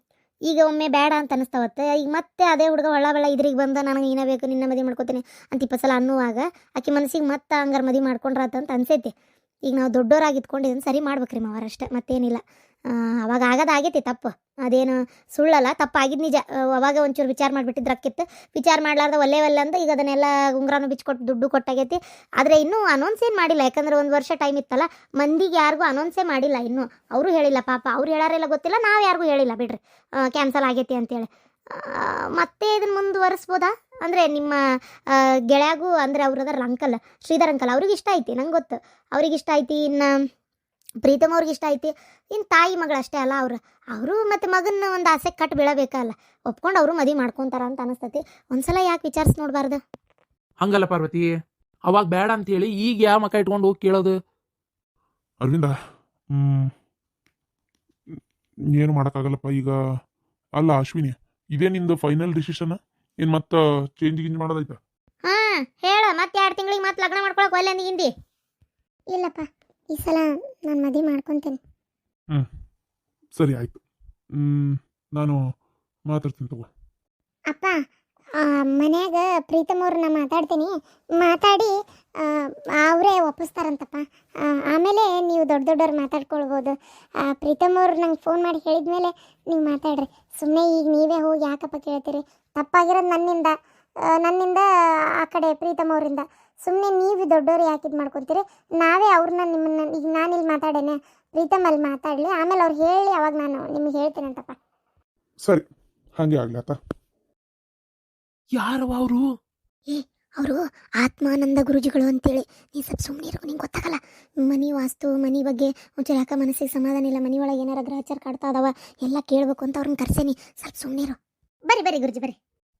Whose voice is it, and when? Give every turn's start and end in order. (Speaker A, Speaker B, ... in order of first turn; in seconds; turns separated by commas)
Speaker A: 0.5-9.1, Speaker A: 9.7-12.4, Speaker A: 13.3-29.8, Speaker A: 30.4-31.3, Speaker A: 32.4-34.5, Speaker A: 35.5-40.1, Speaker A: 41.1-49.8, Speaker B: 50.6-51.3, Speaker B: 51.9-54.1, Speaker C: 55.4-55.7, Speaker C: 56.3-56.7, Speaker C: 58.8-59.8, Speaker C: 60.6-64.8, Speaker A: 65.3-68.1, Speaker A: 69.1-71.6, Speaker C: 73.4-73.8, Speaker C: 74.3-75.4, Speaker C: 76.1-76.7, Speaker A: 77.5-77.8, Speaker A: 78.4-93.6, Speaker A: 94.1-94.7, Speaker A: 95.2-104.6, Speaker C: 106.2-106.8, Speaker B: 108.6-109.3, Speaker A: 110.4-121.2, Speaker A: 121.7-122.4